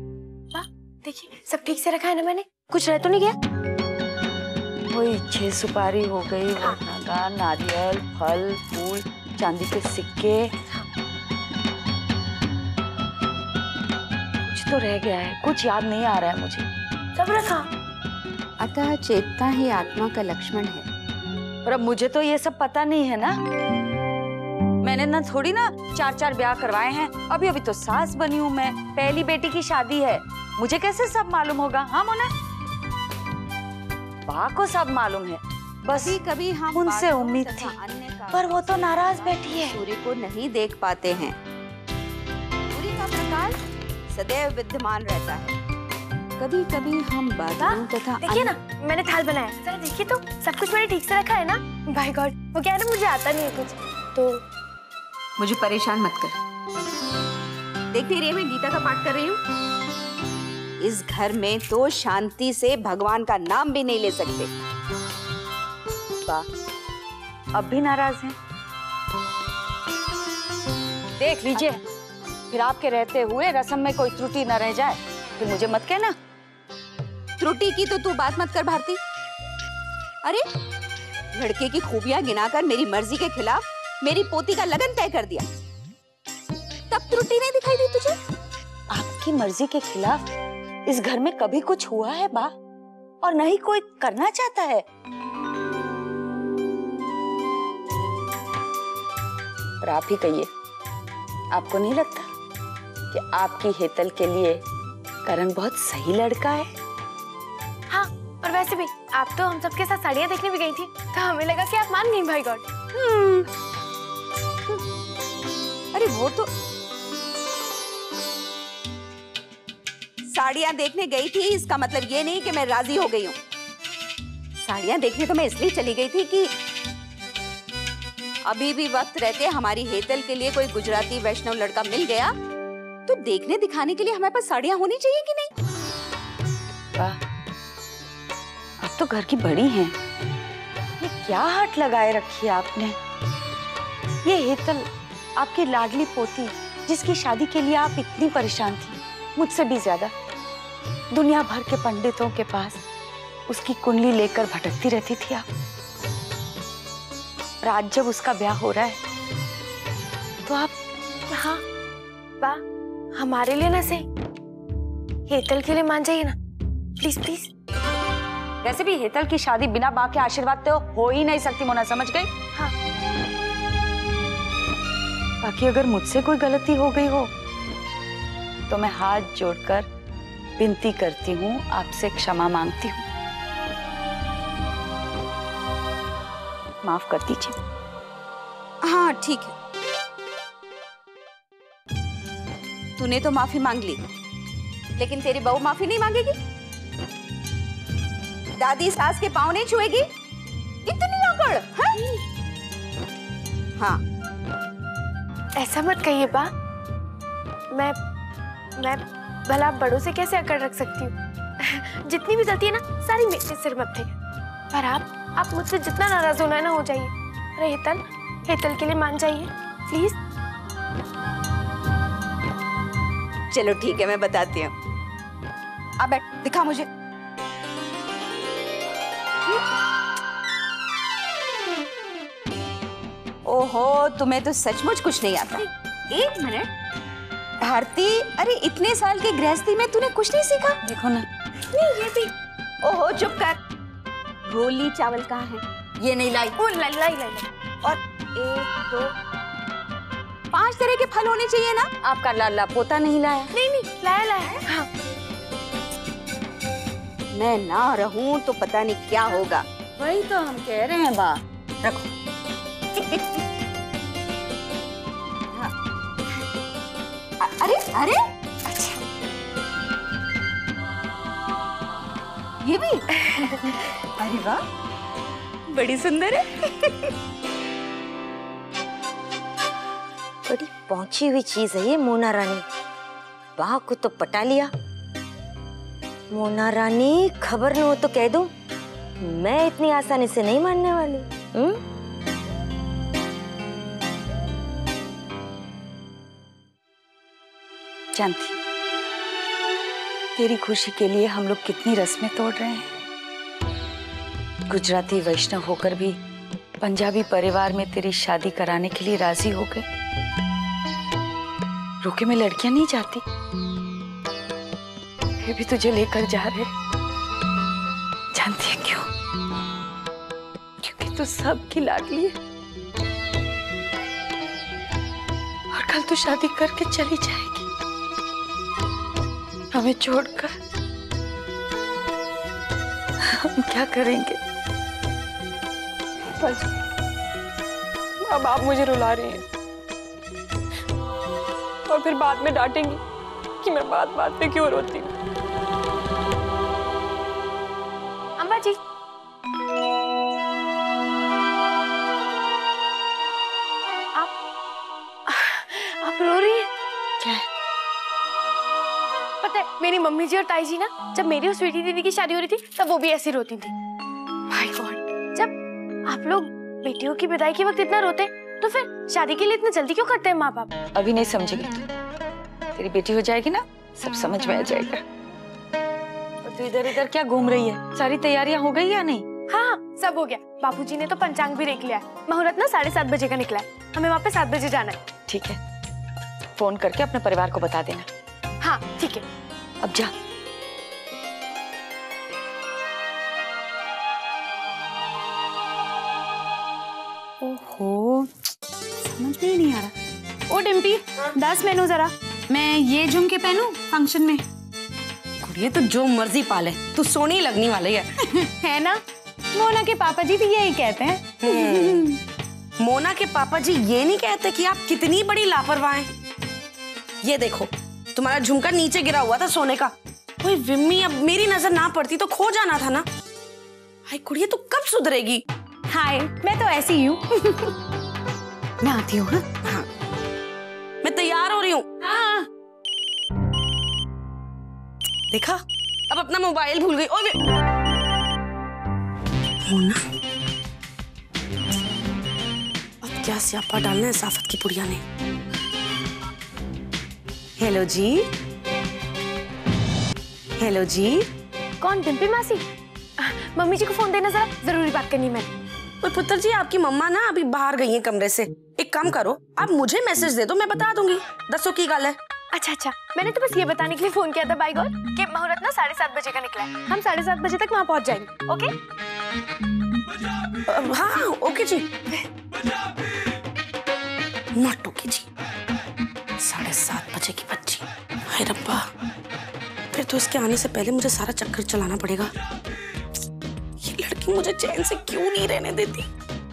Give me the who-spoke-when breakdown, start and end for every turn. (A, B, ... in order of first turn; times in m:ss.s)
0:00.5-0:03.4 A
0:04.9-0:10.5 B
0:14.4-0:16.7 B
0:17.2-0:17.7 A
0:18.6-0:20.9 C
0:21.6-0:23.4 B
0:24.8-0:32.3 B
0:34.3-0:36.2 B
0:35.9-0:41.4 C
0:36.7-0:37.7 B
0:38.7-0:39.3 B
0:42.7-0:45.5 C
0:46.4-0:48.6 C
0:47.6-0:54.4 A
0:55.4-0:56.4 C
0:57.9-0:59.4 C
1:00.8-1:04.5 C
1:07.6-1:08.4 B
1:11.2-1:11.8 B
1:12.5-1:16.1 B
1:17.4-1:19.0 C
1:21.3-1:25.5 C
1:26.9-1:28.2 C
1:28.9-1:30.2 B
1:30.9-1:32.5 B
1:33.2-1:34.8 B
1:39.8-1:40.5 B
1:41.5-1:42.3 B
1:43.1-1:44.6 B
1:45.3-1:46.7 B
1:47.9-1:52.6 A
1:53.0-1:53.5 C
1:55.9-1:56.5 C
2:00.3-2:03.4 C
2:04.6-2:06.5 C
2:08.5-2:12.3 C
2:13.1-2:15.5 C
2:18.8-2:20.0 B
2:21.0-2:23.0 B
2:24.3-2:30.1 B
2:31.1-2:32.8 B
2:33.5-2:35.4 B
2:37.6-2:39.0 B
2:40.4-2:40.7 A
2:41.3-2:41.6 A
2:43.2-2:44.0 A
2:45.3-2:46.4 A
2:47.0-2:47.5 A
2:48.6-2:52.3 B
2:55.4-2:57.3 B
2:58.7-2:59.9 B
3:00.6-3:03.0 B
3:06.8-3:07.6 B
3:08.8-3:09.5 C
3:13.0-3:14.0 C
3:15.0-3:16.4 C
3:18.6-3:20.1 C
3:20.8-3:22.0 C
3:21.9-3:22.2 A
3:25.6-3:26.5 A
3:28.8-3:34.1 A
3:34.7-3:40.2 A
3:43.5-3:44.7 C
3:46.0-3:46.9 C
3:53.4-3:56.7 C
3:57.6-4:00.8 C
4:00.8-4:01.3 B
4:01.8-4:02.2 C
4:02.8-4:03.6 C
4:04.5-4:05.6 C
4:06.0-4:06.6 B
4:06.6-4:07.5 A
4:07.8-4:09.1 C
4:10.5-4:11.9 C
4:12.0-4:13.5 B
4:13.5-4:14.9 A
4:17.3-4:19.6 C
4:20.0-4:21.9 B
4:27.4-4:28.2 C
4:32.6-4:34.6 C
4:35.7-4:36.3 D
4:40.5-4:42.6 E
4:43.6-4:44.7 E
4:46.3-4:48.5 E
4:49.2-4:51.8 E
4:58.2-4:58.6 B
5:00.4-5:02.9 B
5:04.7-5:06.2 B
5:06.8-5:09.8 B
5:12.0-5:13.2 B
5:15.4-5:16.7 B
5:18.3-5:19.1 B
5:20.8-5:22.4 B
5:25.7-5:27.7 B
5:29.7-5:30.5 B
5:33.4-5:34.4 B
5:38.2-5:39.4 A
5:41.9-5:43.0 A
5:43.6-5:45.1 A
5:48.4-5:48.8 A
5:55.3-5:56.7 A
5:59.4-6:03.7 A
6:04.5-6:05.6 A
6:06.1-6:10.7 A
6:11.0-6:11.8 B
6:12.8-6:15.0 B
6:16.4-6:19.2 B
6:19.5-6:25.0 A
6:25.3-6:25.6 B
6:26.6-6:28.1 B
6:28.6-6:29.2 A
6:29.8-6:30.1 B
6:37.4-6:38.3 D
6:39.0-6:39.9 D
6:40.5-6:44.4 D
6:45.4-6:48.1 F
6:48.2-6:49.0 D
6:49.5-6:52.2 D
6:51.4-6:52.1 F
6:52.8-6:56.1 F
6:57.2-7:03.1 F
7:04.1-7:05.4 F
7:05.9-7:07.7 D
7:08.8-7:09.4 D
7:11.0-7:11.9 F
7:12.0-7:12.5 D
7:15.3-7:17.4 F
7:19.6-7:20.0 F
7:23.0-7:25.0 F
7:27.6-7:28.3 F
7:30.6-7:31.3 F
7:31.8-7:32.6 A
7:33.2-7:35.5 A
7:36.0-7:42.2 F
7:42.5-7:48.7 A
7:50.7-7:51.9 F
7:54.6-7:55.3 F
7:56.4-7:58.9 F
7:59.9-8:02.3 F
8:03.8-8:06.1 F